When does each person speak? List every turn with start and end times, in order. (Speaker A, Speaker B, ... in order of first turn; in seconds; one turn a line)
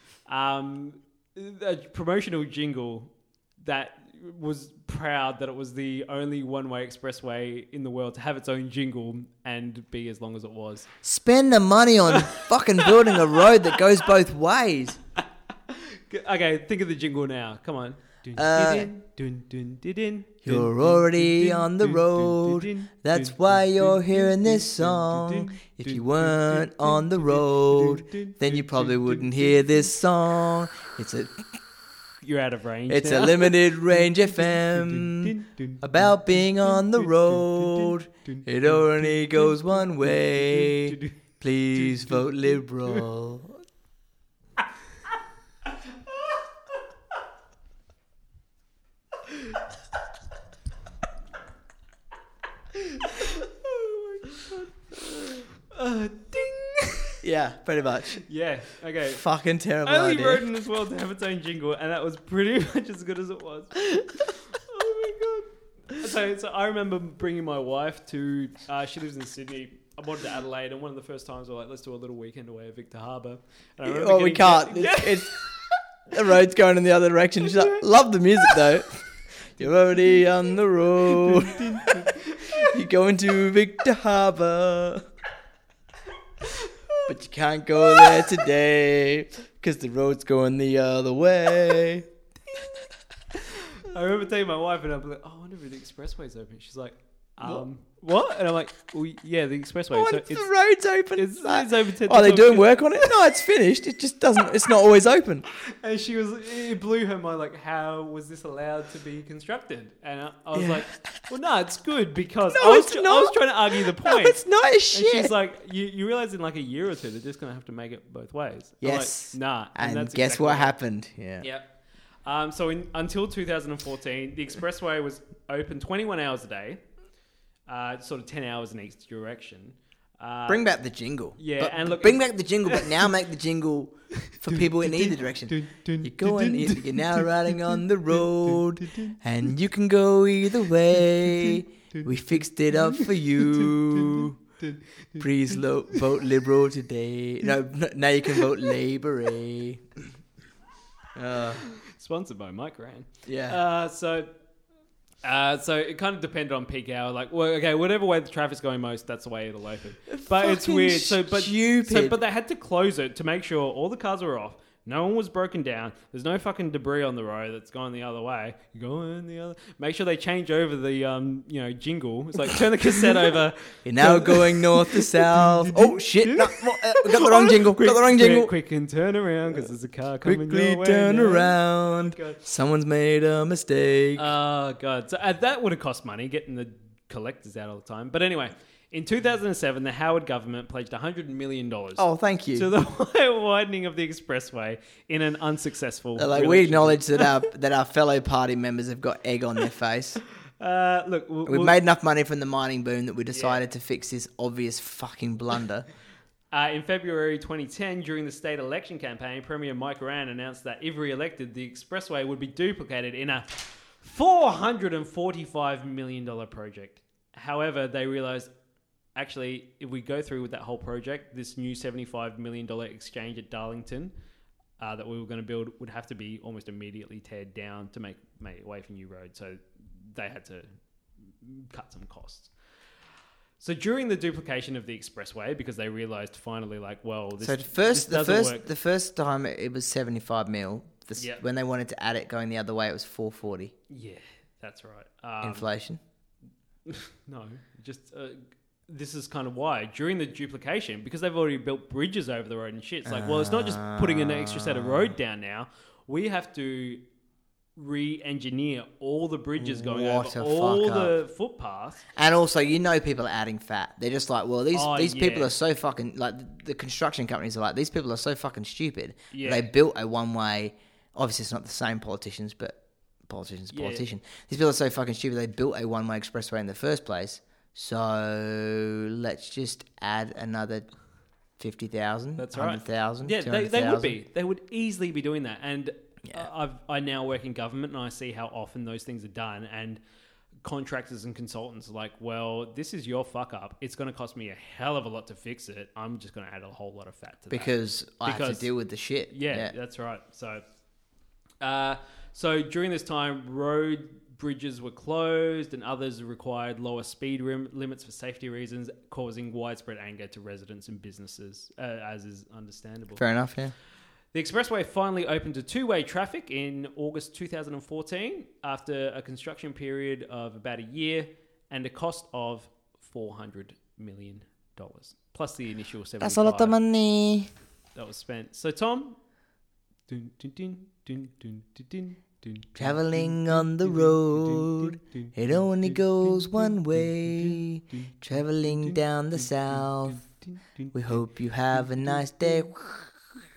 Speaker A: 0.2-10.9
Speaker B: 11.0-15.0
Speaker A: 15.7-29.2
Speaker B: 18.4-18.9
Speaker B: 20.4-31.5
Speaker A: 32.2-33.9
Speaker B: 32.9-43.6
Speaker A: 34.9-35.8
Speaker A: 36.6-41.1
Speaker A: 41.8-42.2
Speaker A: 53.0-57.1
Speaker B: 57.2-58.2
Speaker A: 58.3-59.2
Speaker B: 59.1-60.5
Speaker A: 59.9-75.6
Speaker B: 73.8-75.6
Speaker B: 76.1-85.0
Speaker A: 81.2-82.8
Speaker B: 87.1-92.1
Speaker A: 93.8-100.5
Speaker B: 99.9-105.5
Speaker A: 101.2-103.1
Speaker A: 105.8-120.8
Speaker B: 110.5-111.3
Speaker B: 112.5-115.3
Speaker B: 118.8-121.5
Speaker A: 121.4-126.8
Speaker A: 127.7-130.7
Speaker B: 130.5-144.4
Speaker A: 131.4-133.1
Speaker A: 134.5-137.8
Speaker A: 138.5-139.2
Speaker A: 143.6-145.3
Speaker B: 145.2-149.8
Speaker B: 151.2-151.6
Speaker A: 151.8-154.3
Speaker B: 153.3-153.6
Speaker A: 155.2-181.6
Speaker B: 160.1-162.2
Speaker B: 173.8-178.5
Speaker B: 180.2-184.3
Speaker A: 182.1-182.4
Speaker A: 184.2-197.3
Speaker B: 192.0-192.7
Speaker B: 196.2-200.2
Speaker A: 200.6-201.8
Speaker B: 201.5-205.9
Speaker A: 203.3-203.6
Speaker A: 206.5-218.5
Speaker A: 219.2-224.1
Speaker A: 224.8-230.7
Speaker A: 231.3-232.6
Speaker A: 233.6-238.7
Speaker B: 237.4-243.7
Speaker A: 243.9-245.7
Speaker B: 245.4-246.0
Speaker A: 246.9-257.0
Speaker B: 253.1-255.1
Speaker A: 257.8-262.0
Speaker B: 259.6-261.2
Speaker B: 262.1-281.0
Speaker A: 264.7-265.5
Speaker A: 269.3-269.7
Speaker A: 273.7-274.1
Speaker B: 281.6-284.2
Speaker A: 282.4-290.0
Speaker A: 290.6-300.6
Speaker B: 297.5-299.7
Speaker A: 301.6-313.2
Speaker B: 313.2-313.7
Speaker A: 314.3-326.8
Speaker B: 326.2-327.5
Speaker A: 327.9-329.2
Speaker A: 330.1-335.3
Speaker B: 332.8-340.3
Speaker A: 336.6-337.6
Speaker B: 340.9-343.1